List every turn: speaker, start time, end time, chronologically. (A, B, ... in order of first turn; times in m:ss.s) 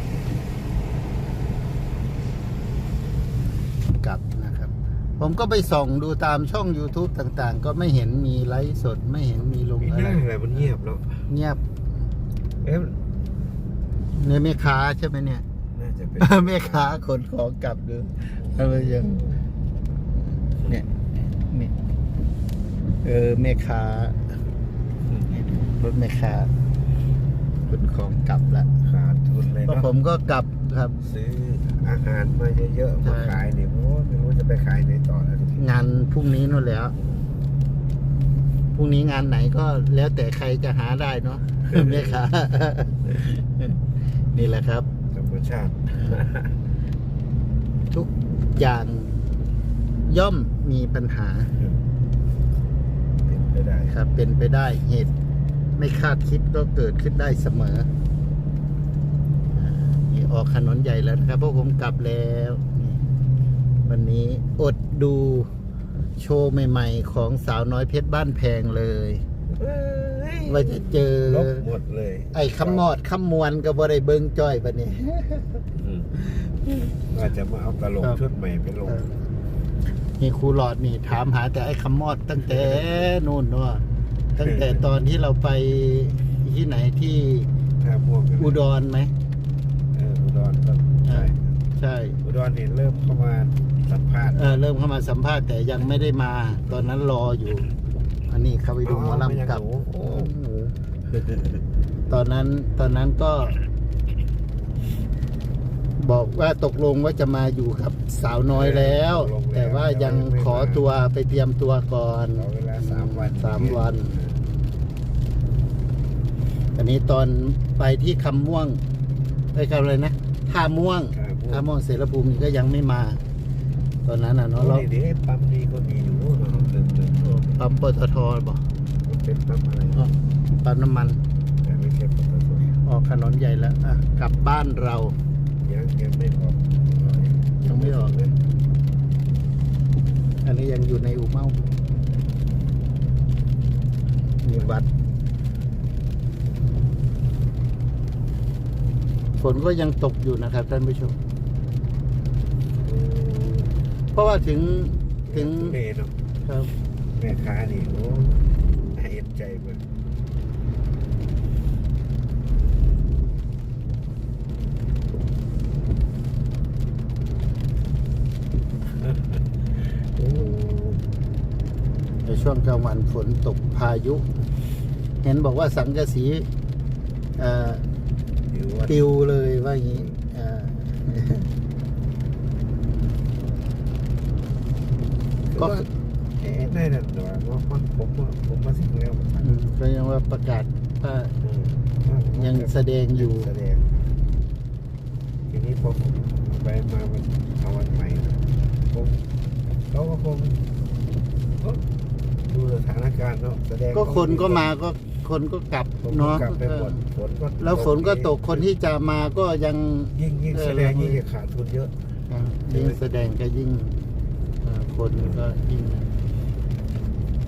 0:04.0-0:10.2 A
0:09.8-0:11.3 B
0:11.3-0:12.0 A
0:12.6-0:13.0 B
0:14.1-0:15.4 A
0:15.7-0:17.0 B
0:16.2-0:19.2 A
0:18.3-0:19.4 B
0:20.7-0:21.7 A
0:23.0-0:24.3 A
0:25.0-0:25.4 B
0:25.3-0:26.5 A
0:27.7-0:28.7 A
0:28.8-0:29.9 B
0:29.7-0:31.0 A
0:31.0-0:35.8 B
0:33.0-0:33.4 A
0:35.6-0:36.9 A
0:37.0-0:37.3 B
0:38.7-0:43.8 A
0:41.6-0:42.2 B
0:44.3-0:44.9 A
0:45.1-0:46.5 B
0:46.0-0:46.2 A
0:47.9-0:49.2 A
0:50.0-0:51.6 A
0:53.2-0:54.0 B
0:53.9-0:55.1 A
0:55.8-0:57.9 A
0:59.5-1:03.0 A
1:03.8-1:05.5 A
1:06.2-1:09.2 A
1:09.5-1:12.9 B
1:10.4-1:11.6 A
1:12.3-1:15.6 A
1:15.7-1:16.2 B
1:16.3-1:16.7 A
1:17.1-1:19.0 B
1:20.2-1:23.8 A
1:22.4-1:23.1 B
1:24.4-1:27.5 A
1:24.4-1:24.8 B
1:27.8-1:28.6 B
1:28.4-1:29.1 A
1:29.9-1:31.6 B
1:31.1-1:32.2 A
1:32.2-1:34.6 B
1:34.3-1:37.7 A
1:38.3-1:40.7 A
1:38.8-1:40.3 B
1:41.1-1:41.6 B
1:42.1-1:43.6 A
1:46.0-1:54.1 A
1:48.5-1:50.8 B
1:52.3-1:54.4 B
1:56.8-1:58.8 A
1:59.5-2:03.2 A
2:01.1-2:01.6 B
2:04.0-2:04.8 A
2:04.6-2:07.6 B
2:07.2-2:08.6 A
2:09.0-2:10.2 B
2:10.0-2:11.2 A
2:11.6-2:12.8 B
2:12.8-2:15.1 A
2:15.6-2:18.3 B
2:17.6-2:18.2 A
2:20.4-2:21.7 A
2:24.4-2:24.8 A
2:29.4-2:31.2 A
2:32.8-2:33.7 B
2:34.1-2:35.8 A
2:35.2-2:36.2 B
2:36.4-2:36.7 A
2:37.1-2:39.8 B
2:50.2-2:51.0 B
2:52.2-2:54.2 A
2:55.2-2:56.5 A
2:57.4-2:57.8 A
2:58.5-2:59.2 B
2:58.9-3:01.5 A
3:05.5-3:05.8 B
3:05.6-3:05.8 A
3:06.4-3:09.5 B
3:09.4-3:11.3 A
3:11.4-3:14.0 B
3:12.3-3:13.5 A
3:15.5-3:19.2 B
3:19.9-3:20.6 B
3:21.6-3:21.8 B
3:22.4-3:24.7 B
3:23.9-3:27.0 A
3:26.0-3:28.6 B
3:27.6-3:31.2 A
3:30.1-3:31.9 B
3:32.3-3:34.0 A
3:32.7-3:33.0 B
3:34.6-3:36.1 A
3:35.2-3:35.5 B